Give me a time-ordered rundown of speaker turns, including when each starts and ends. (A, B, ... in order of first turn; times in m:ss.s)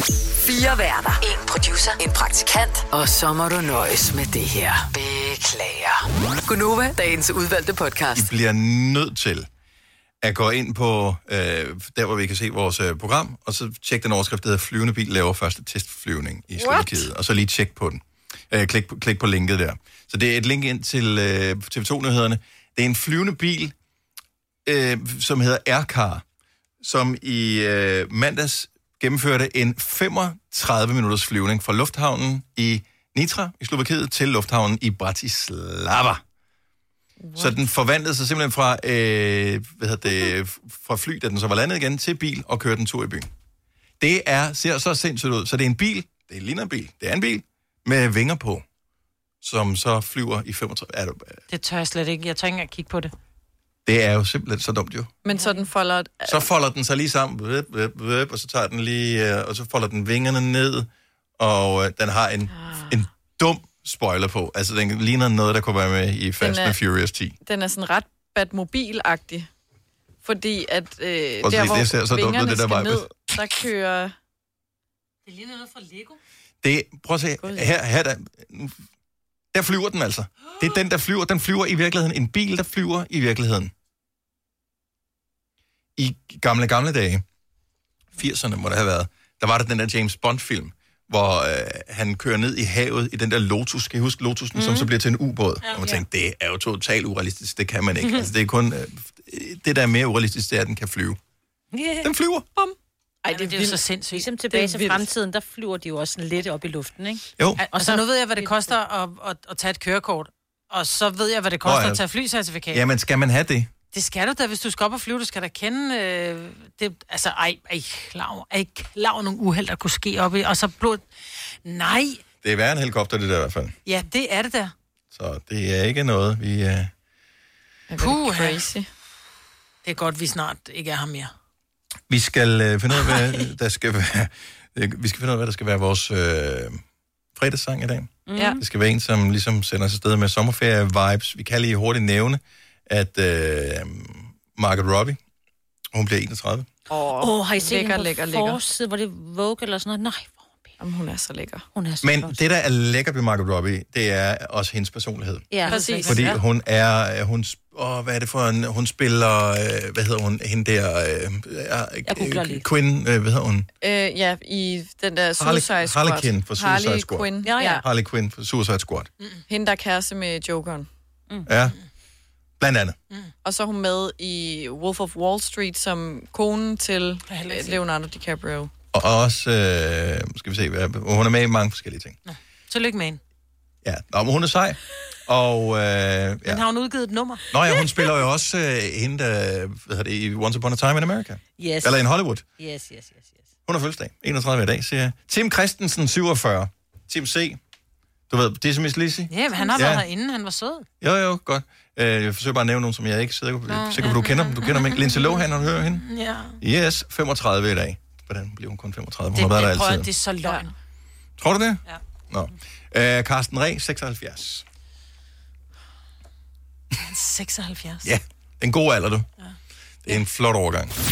0:00.3-0:08.3 A
0:08.1-0:09.5 B
0:10.2-0:23.7 B
0:16.6-0:17.0 C
0:24.6-0:26.2 B
0:26.8-0:36.2 B
0:37.2-0:37.7 C
0:37.4-0:43.3 B
0:44.0-0:48.6 B
0:49.4-0:51.4 B
0:51.5-0:53.1 D
0:53.8-0:55.2 B
0:55.2-0:56.5 C
0:56.3-1:00.9 B
1:01.4-1:07.4 B
1:02.5-1:03.0 C
1:06.4-1:06.8 C
1:07.4-1:09.5 C
1:10.2-1:14.1 C
1:11.4-1:13.1 B
1:15.2-1:16.2 D
1:16.6-1:18.8 B
1:17.4-1:17.7 C
1:19.5-1:23.7 B
1:26.0-1:27.2 B
1:28.2-1:41.2 B
1:34.5-1:34.9 E
1:35.6-1:36.0 E
1:41.7-1:42.1 E
1:42.0-1:42.4 B
1:42.6-1:43.8 C
1:43.3-1:44.3 D
1:44.1-1:48.7 E
1:44.5-1:45.0 C
1:47.6-1:52.8 D
1:51.6-1:52.0 B
1:52.7-1:53.7 B
1:53.9-2:01.0 D
2:01.6-2:02.2 D
2:02.4-2:03.7 B
2:03.8-2:04.7 D
2:05.1-2:06.9 B
2:07.9-2:08.9 C
2:08.0-2:08.6 D
2:09.8-2:11.3 D
2:12.1-2:16.8 B
2:17.3-2:25.2 B
2:18.3-2:18.6 E
2:25.9-2:26.7 B
2:26.9-2:28.6 C
2:27.2-2:30.7 E
2:30.8-2:31.6 C
2:31.7-2:32.4 E
2:32.0-2:35.4 B
2:35.5-2:36.4 E
2:35.7-2:36.4 D
2:36.0-2:43.7 B
2:42.0-2:42.6 E
2:43.8-2:47.8 C
2:45.4-2:49.1 B
2:47.4-2:47.8 E
2:49.5-2:50.9 C
2:51.5-2:51.8 B
2:52.6-2:53.0 B
2:53.4-2:58.7 C
2:57.3-2:57.8 D
2:58.9-3:02.2 B
3:02.2-3:03.2 D
3:03.8-3:06.6 B
3:06.4-3:07.4 D
3:07.5-3:12.4 B
3:11.6-3:12.0 E
3:12.6-3:13.5 E
3:13.7-3:17.6 B
3:18.3-3:20.0 B
3:19.3-3:20.8 D
3:21.0-3:26.0 B
3:23.7-3:25.2 D
3:26.0-3:26.6 D
3:26.6-3:30.1 B
3:29.3-3:30.7 D
3:30.4-3:30.7 C
3:31.4-3:34.6 B
3:37.0-3:38.1 D
3:38.0-3:39.2 B
3:40.0-3:40.9 B